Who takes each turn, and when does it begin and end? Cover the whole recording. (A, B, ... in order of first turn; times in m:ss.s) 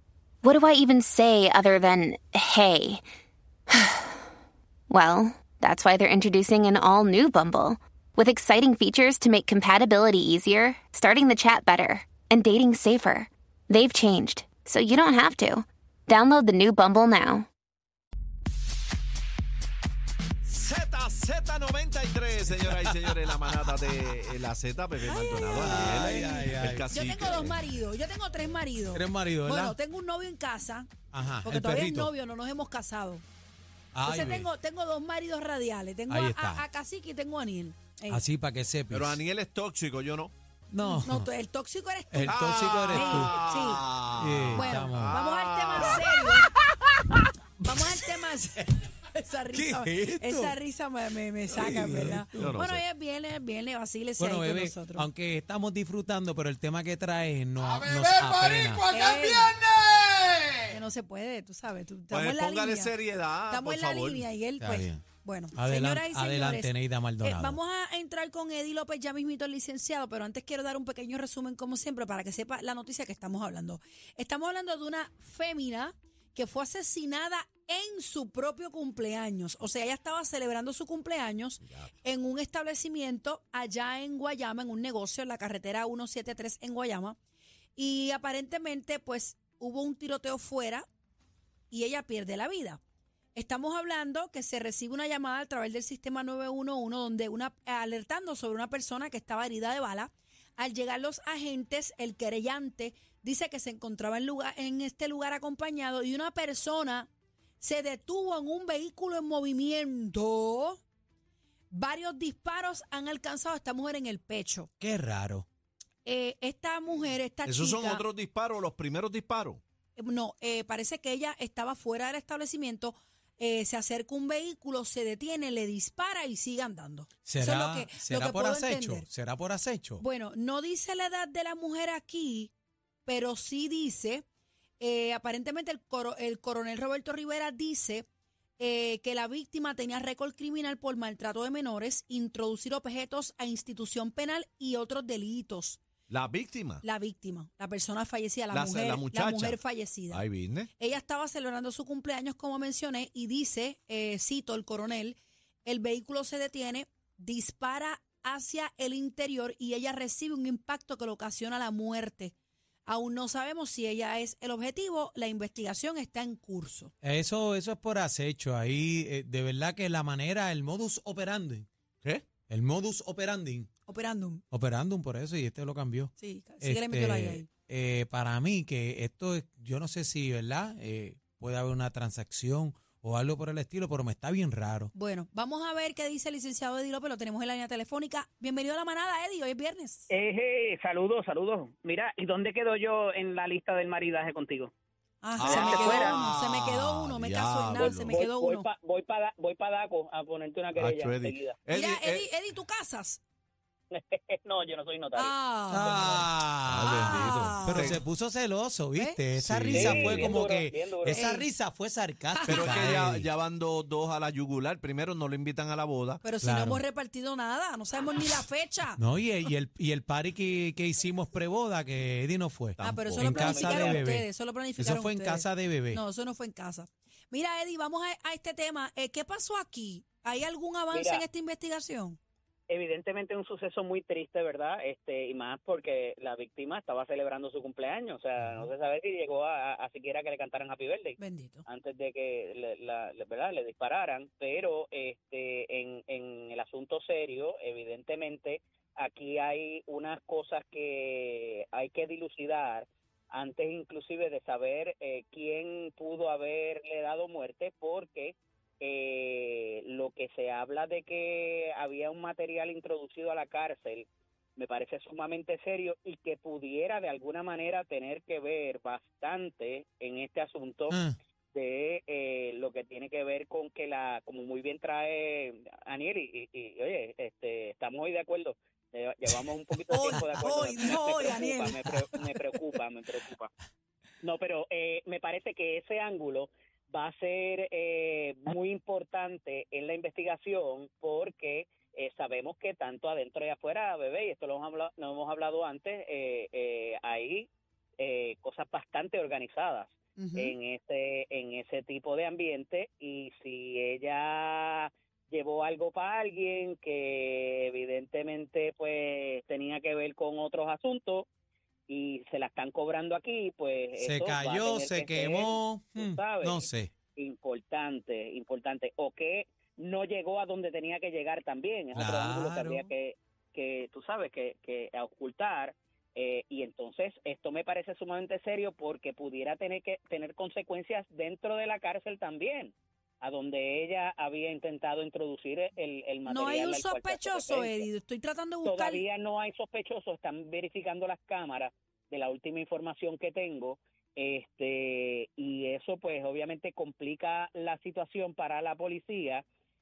0:00.4-0:03.0 A
0:04.9-0:17.5 A
0:20.5-0:27.6 B
0:22.7-0:23.7 C
0:25.0-0:30.9 D
0:25.5-0:26.9 C
0:28.9-0:29.8 C
0:31.1-0:32.1 C
0:31.4-0:33.2 D
0:33.9-0:34.5 C
0:34.0-0:38.2 D
0:36.1-0:36.6 C
0:38.1-0:39.2 C
0:38.9-0:40.3 B
0:40.7-0:41.3 C
0:40.8-0:43.8 D
0:42.1-0:43.4 C
0:42.2-0:46.0 B
0:44.2-0:45.2 C
0:44.5-0:46.5 D
0:47.6-0:55.1 D
0:49.5-0:50.6 C
0:51.5-0:52.6 C
0:52.4-0:52.8 B
0:54.2-0:58.9 C
0:58.9-0:59.6 D
1:00.6-1:02.9 D
1:02.1-1:04.3 B
1:03.5-1:27.2 D
1:04.6-1:05.0 C
1:05.6-1:07.6 C
1:27.8-1:30.9 D
1:31.7-1:32.8 D
1:33.4-1:50.8 D
1:51.7-1:54.7 D
1:54.8-1:55.5 C
1:56.0-1:58.0 D
1:57.4-1:59.6 B
2:00.0-2:09.1 D
2:07.2-2:10.0 C
2:10.0-2:12.5 D
2:13.0-2:14.2 D
2:14.8-2:18.1 D
2:18.6-2:25.8 D
2:26.1-2:26.8 B
2:26.8-2:30.2 D
2:28.5-2:30.7 B
2:30.8-2:42.4 D
2:42.9-2:46.9 D
2:47.0-2:51.7 C
2:52.5-2:53.7 C
2:53.9-2:54.4 D
2:54.5-3:04.9 C
2:56.2-2:57.5 D
3:04.9-3:10.1 D
3:10.1-3:14.7 E
3:15.2-3:18.7 D
3:15.4-3:18.2 B
3:15.4-3:16.2 E
3:17.8-3:21.6 E
3:20.7-3:22.3 B
3:21.7-3:23.2 D
3:23.9-3:25.3 E
3:25.2-3:26.2 D
3:25.7-3:33.3 C
3:26.6-3:28.0 B
3:27.0-3:28.0 D
3:28.9-3:29.2 D
3:29.4-3:30.3 B
3:29.7-3:31.3 E
3:31.1-3:31.5 D
3:32.3-3:32.9 D
3:32.4-3:36.2 B
3:36.2-3:39.0 D
3:36.4-3:36.8 C
3:39.0-3:46.0 C
3:42.8-3:52.2 D
3:43.2-3:44.0 E
3:50.9-3:51.2 E
3:52.7-4:24.1 E
3:58.4-3:58.7 C
4:01.2-4:01.6 D
4:24.6-4:31.0 E
4:30.9-4:31.2 C
4:31.5-4:43.5 E
4:39.9-4:42.2 D
4:44.2-4:57.5 E
4:58.0-5:11.3 E
5:00.2-5:00.5 D
5:11.9-5:37.9 E
5:14.0-5:16.9 C
5:22.0-5:22.9 C
5:36.3-5:39.0 D
5:38.6-5:49.4 E